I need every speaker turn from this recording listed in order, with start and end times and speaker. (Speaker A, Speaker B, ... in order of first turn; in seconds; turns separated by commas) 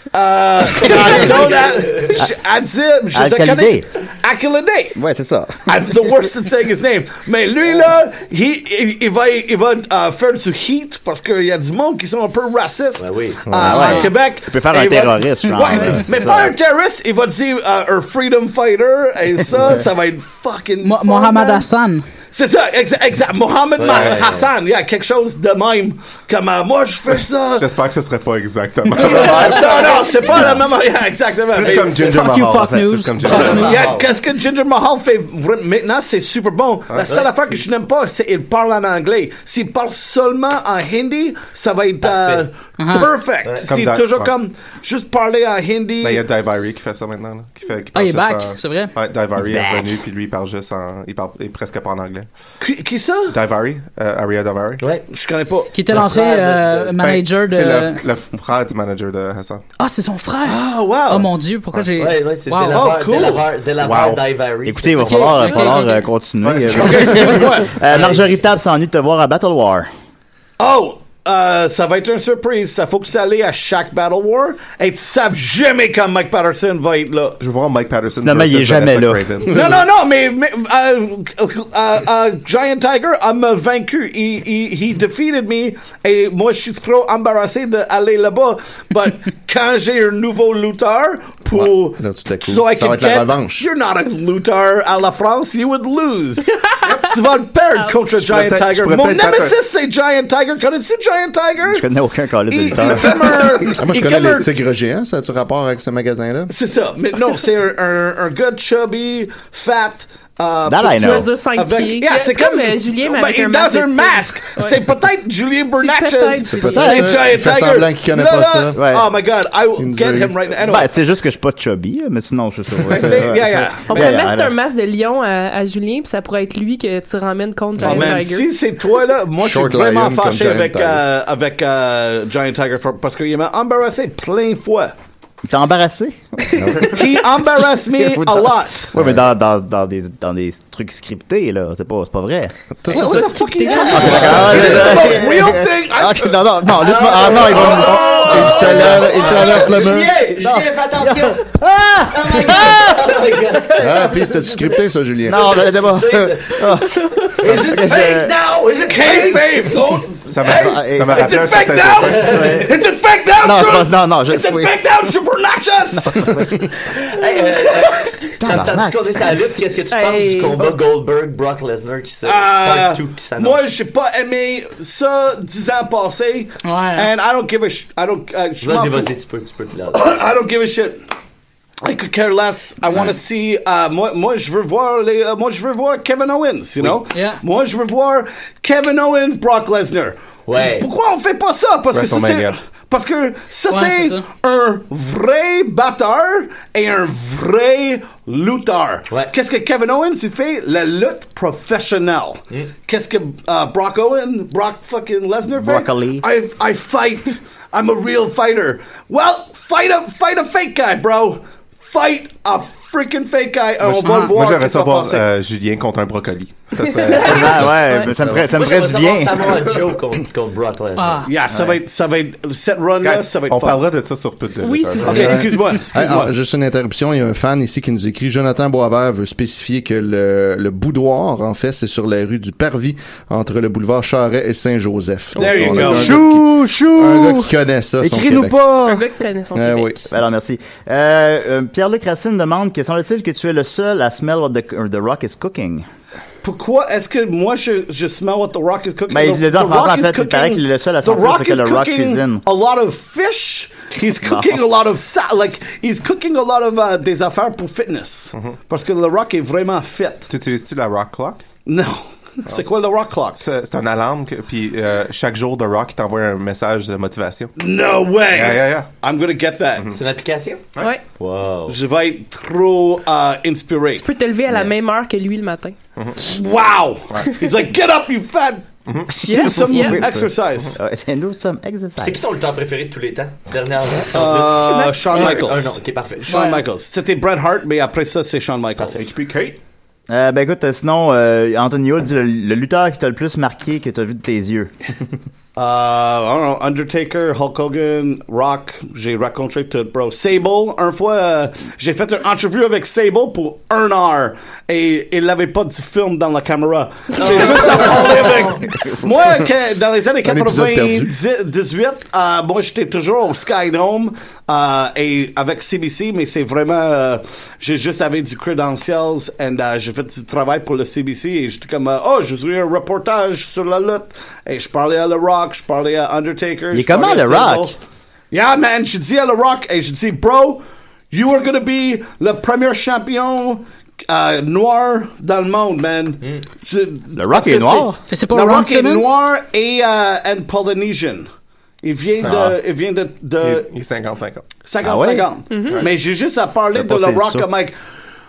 Speaker A: 0.1-5.0, Speaker B: 0.8-2.2, Speaker C: 3.1-3.9, Speaker C: 5.0-5.6, Speaker A: 5.6-21.7, Speaker B: 13.0-13.9, Speaker D: 13.5-13.8, Speaker C: 13.6-16.5, Speaker E: 13.7-14.1, Speaker E: 20.8-22.1, Speaker A: 22.3-27.7, Speaker B: 23.8-24.5, Speaker F: 27.6-30.5, Speaker A: 28.9-32.3, Speaker G: 29.2-30.2, Speaker F: 31.6-33.8, Speaker E: 32.0-33.8, Speaker B: 33.3-34.1, Speaker A: 33.3-46.2, Speaker B: 42.0-42.5, Speaker E: 42.8-43.1, Speaker B: 43.4-43.7, Speaker F: 43.7-44.3, Speaker F: 46.0-52.3, Speaker E: 47.9-48.9, Speaker C: 49.4-49.9, Speaker A: 52.6-53.4, Speaker F: 53.3-54.8, Speaker B: 54.8-55.0, Speaker A: 55.1-56.4, Speaker E: 55.7-58.0, Speaker B: 56.0-56.4, Speaker F: 57.0-59.6, Speaker E: 59.8-63.2, Speaker A: 60.5-61.3, Speaker B: 62.0-65.8, Speaker A: 62.7-63.5, Speaker F: 63.8-64.3, Speaker C: 64.7-69.9, Speaker E: 65.0-66.1, Speaker F: 66.4-67.3, Speaker A: 66.7-67.7, Speaker B: 67.7-68.3, Speaker A: 70.6-77.4, Speaker F: 77.4-79.8, Speaker C: 78.2-79.5, Speaker A: 79.5-101.9, Speaker D: 91.5-93.7, Speaker F: 98.1-99.6, Speaker C: 101.7-103.7, Speaker A: 102.5-104.6, Speaker D: 103.8-106.5, Speaker A: 106.5-120.9, Speaker C: 110.7-111.3, Speaker G: 111.0-114.9, Speaker G: 115.8-117.3, Speaker D: 116.5-118.8, Speaker C: 118.8-119.1, Speaker D: 119.8-120.5, Speaker C: 120.6-124.5, Speaker A: 122.8-124.2, Speaker G: 123.9-128.6, Speaker A: 127.8-134.9, Speaker D: 127.8-128.1, Speaker D: 129.4-131.0, Speaker C: 135.4-136.9, Speaker D: 136.6-137.0, Speaker A: 136.8-138.9, Speaker C: 137.9-142.6, Speaker D: 139.0-139.2, Speaker D: 142.8-143.4, Speaker A: 142.9-146.4, Speaker G: 142.9-144.6, Speaker B: 143.7-144.8, Speaker D: 143.9-145.2, Speaker C: 143.9-153.7, Speaker B: 146.8-154.7, Speaker A: 147.1-148.7, Speaker D: 147.6-150.2, Speaker G: 147.9-148.5, Speaker D: 153.8-155.7, Speaker C: 155.2-158.3, Speaker B: 155.3-156.7, Speaker B: 157.4-160.0, Speaker A: 158.8-166.4, Speaker F: 160.3-162.4, Speaker C: 160.4-161.3, Speaker B: 162.1-162.7, Speaker C: 162.3-162.7, Speaker C: 163.4-164.8, Speaker C: 165.9-166.7, Speaker B: 167.1-173.7, Speaker C: 168.4-169.0, Speaker G: 169.9-170.7, Speaker A: 172.2-179.1, Speaker E: 176.6-177.1, Speaker B: 178.6-180.2, Speaker A: 179.9-181.0, Speaker A: 181.8-215.3, Speaker E: 187.1-187.4, Speaker B: 190.5-190.9, Speaker F: 191.9-192.6, Speaker E: 193.7-194.3, Speaker C: 205.5-206.2, Speaker F: 213.8-217.8, Speaker G: 216.8-218.1, Speaker B: 217.1-221.2, Speaker C: 217.2-219.7, Speaker D: 218.2-218.5, Speaker E: 221.0-221.3, Speaker A: 221.3-223.9, Speaker F: 223.0-225.4, Speaker G: 224.6-225.8, Speaker A: 225.0-226.3, Speaker D: 225.2-238.8, Speaker A: 235.4-237.4, Speaker C: 235.7-237.4, Speaker C: 238.0-239.0, Speaker A: 238.3-238.8, Speaker G: 238.8-240.1, Speaker D: 239.5-240.0, Speaker C: 240.1-245.8, Speaker A: 246.4-260.3, Speaker C: 249.1-252.4, Speaker C: 254.2-254.6, Speaker F: 260.3-261.4, Speaker A: 261.7-263.4, Speaker F: 263.4-267.6, Speaker A: 267.6-269.9, Speaker F: 268.3-268.9, Speaker B: 269.9-271.8, Speaker G: 270.8-271.0, Speaker A: 271.7-274.0, Speaker G: 274.0-275.8, Speaker F: 276.0-276.3, Speaker A: 276.2-280.8, Speaker F: 278.9-279.2, Speaker G: 279.2-280.1, Speaker C: 279.7-280.0, Speaker C: 280.8-282.2, Speaker B: 282.0-286.5, Speaker A: 284.1-289.3, Speaker G: 284.6-285.5, Speaker E: 286.3-286.6, Speaker B: 288.8-289.0, Speaker F: 289.2-289.6, Speaker C: 290.1-294.7, Speaker A: 295.6-327.8, Speaker D: 310.2-311.1, Speaker C: 326.7-327.8, Speaker A: 328.3-341.3, Speaker C: 337.2-338.0, Speaker E: 338.1-339.1, Speaker A: 341.8-343.7, Speaker F: 343.4-344.5, Speaker A: 344.6-347.8, Speaker C: 344.8-345.3, Speaker G: 345.5-345.9, Speaker C: 346.8-347.5